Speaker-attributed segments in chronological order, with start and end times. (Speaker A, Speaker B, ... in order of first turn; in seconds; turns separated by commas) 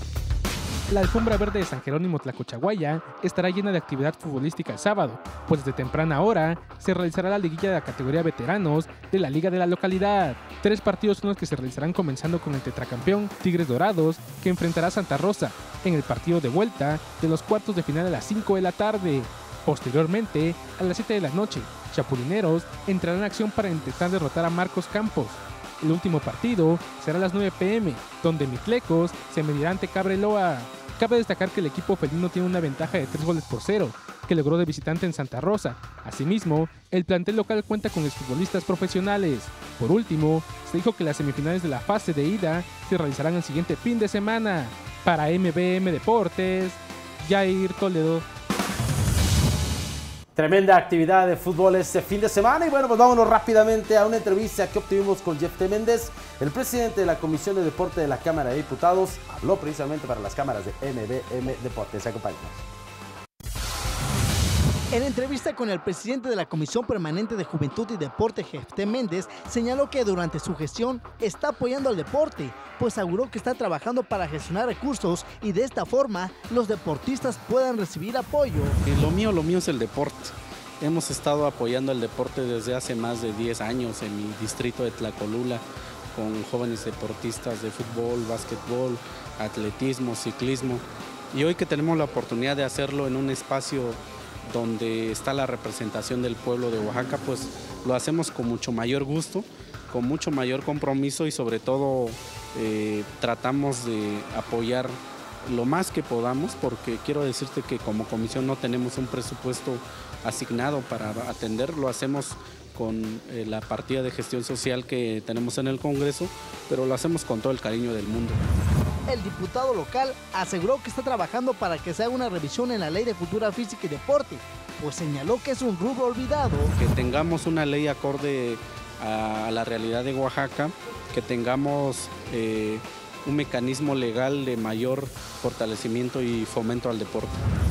Speaker A: 0.9-48.3, Speaker B: 50.4-62.6, Speaker C: 64.9-78.8, Speaker D: 78.8-85.6, Speaker D: 86.1-118.4, Speaker C: 119.1-126.7, Speaker D: 126.8-137.4